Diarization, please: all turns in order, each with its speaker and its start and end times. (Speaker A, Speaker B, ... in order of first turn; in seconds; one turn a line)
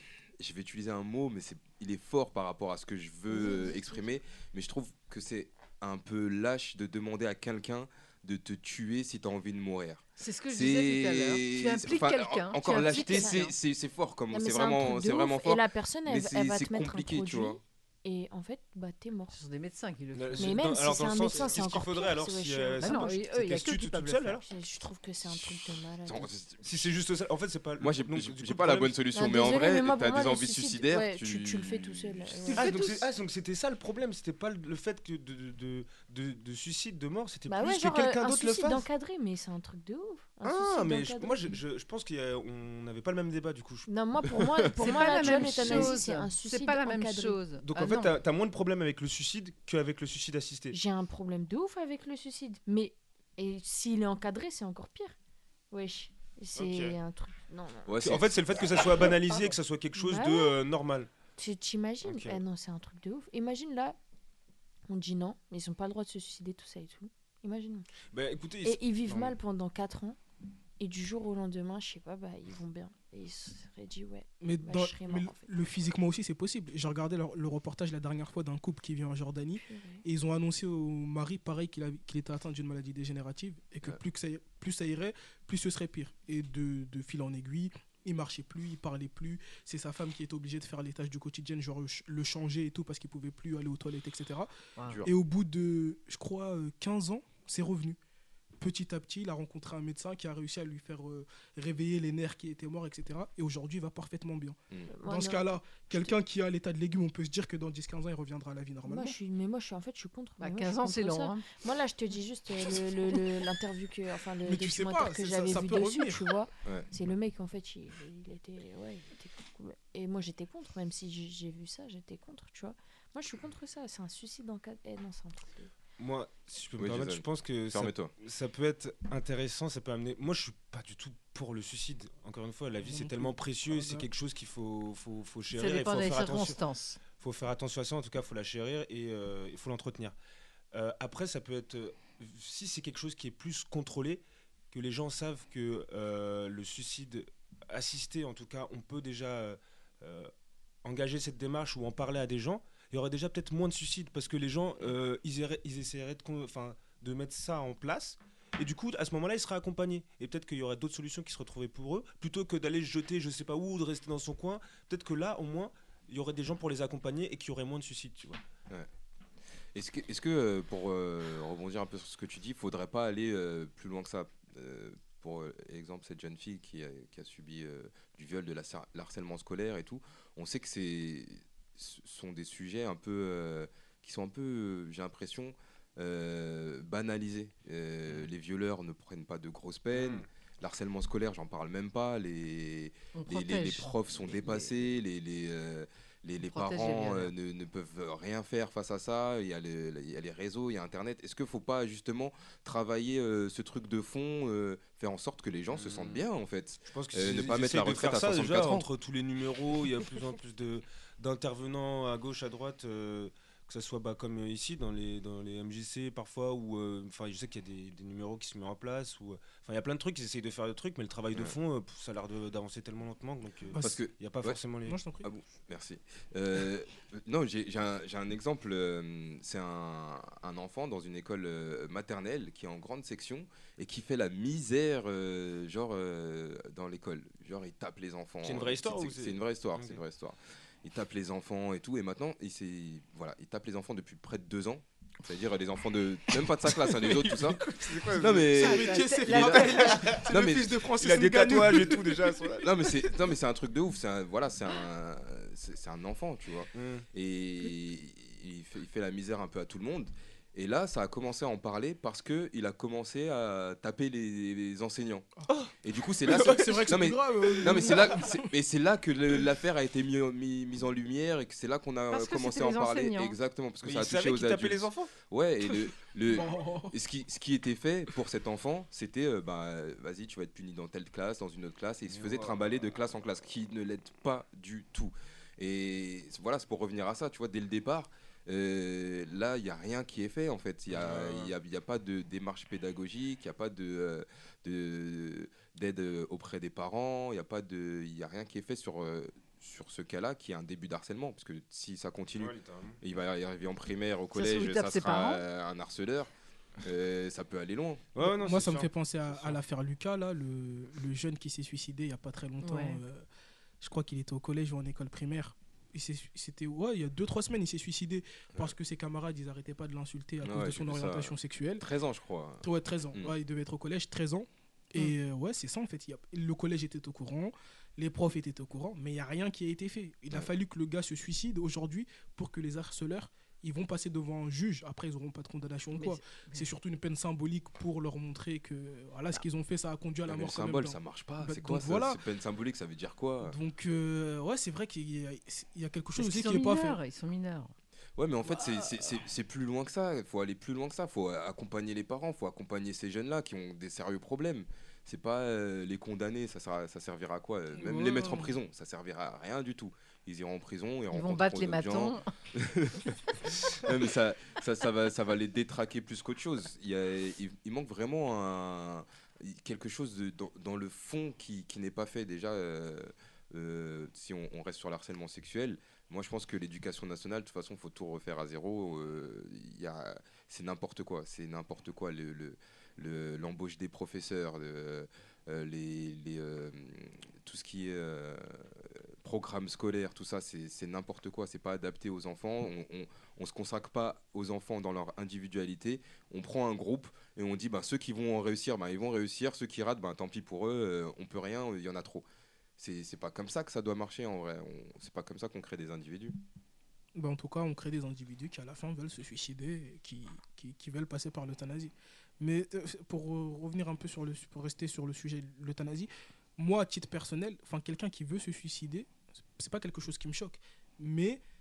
Speaker A: 0.4-17.6
Speaker B: 3.3-4.0
Speaker C: 10.2-13.5
Speaker B: 12.7-13.5
Speaker B: 14.3-19.4
Speaker C: 19.3-20.6
Speaker D: 20.1-24.4
Speaker B: 20.4-23.2
Speaker C: 22.8-24.4
Speaker B: 24.4-26.3
Speaker A: 25.3-26.9
Speaker D: 26.6-29.0
Speaker A: 27.8-32.6
Speaker B: 29.1-32.8
Speaker C: 32.5-33.0
Speaker D: 32.5-38.9
Speaker B: 37.5-41.5
Speaker D: 40.4-43.9
Speaker B: 43.9-47.4
Speaker C: 44.8-48.1
Speaker D: 45.3-45.9
Speaker D: 47.6-50.7
Speaker B: 50.7-55.1
Speaker B: 55.7-58.1
Speaker D: 56.5-57.0
Speaker A: 57.9-58.3
Speaker D: 58.0-61.1
Speaker B: 59.9-60.6
Speaker B: 61.4-64.0
Speaker D: 62.0-62.4
Speaker B: 64.9-67.8
Speaker D: 68.1-69.3
Speaker B: 68.6-70.2
Speaker B: 70.8-75.5
Speaker E: 74.4-94.5
Speaker B: 79.6-80.0
Speaker A: 94.9-95.1
Speaker E: 95.0-98.0
Speaker E: 98.6-109.2
Speaker B: 104.9-106.1
Speaker B: 108.8-125.7
Speaker C: 110.4-111.5
Speaker E: 114.4-116.3
Speaker D: 126.0-136.6
Speaker A: 126.8-128.1
Speaker E: 132.8-134.1
Speaker C: 135.5-137.0
Speaker D: 137.2-140.1
Speaker D: 140.7-150.3
Speaker D: 150.8-168.4
Speaker A: 169.7-208.9
Speaker D: 189.9-190.2
Speaker C: 193.1-194.7
Speaker C: 196.4-197.3
Speaker D: 205.7-206.2
Speaker D: 206.9-225.0
Speaker E: 223.7-224.0
Speaker A: 223.8-224.6
Speaker E: 224.8-225.3
Speaker A: 225.2-249.6
Speaker D: 238.4-240.0
Speaker D: 247.0-248.7
Speaker E: 248.5-252.5
Speaker C: 248.5-250.0
Speaker D: 249.3-250.3
Speaker A: 250.2-250.7
Speaker D: 251.0-252.7
Speaker A: 252.6-265.3
Speaker D: 256.7-257.1
Speaker A: 265.8-308.0
Speaker D: 266.3-266.9
Speaker E: 266.3-268.4
Speaker D: 267.8-268.1
Speaker C: 272.1-273.3
Speaker D: 273.8-275.1
Speaker E: 276.3-276.9
Speaker D: 282.1-282.7
Speaker D: 290.9-291.5
Speaker D: 302.4-303.0
Speaker C: 304.3-305.4
Speaker D: 308.1-309.6
Speaker E: 308.2-313.2
Speaker C: 312.6-313.0
Speaker E: 313.8-321.8
Speaker A: 320.4-323.4
Speaker E: 322.6-342.2
Speaker C: 335.9-336.7
Speaker A: 340.3-343.6
Speaker E: 343.4-347.0
Speaker C: 346.1-347.7
Speaker A: 348.2-402.2
Speaker E: 357.8-358.5
Speaker C: 361.1-362.3
Speaker A: 402.8-406.4
Speaker E: 407.2-421.4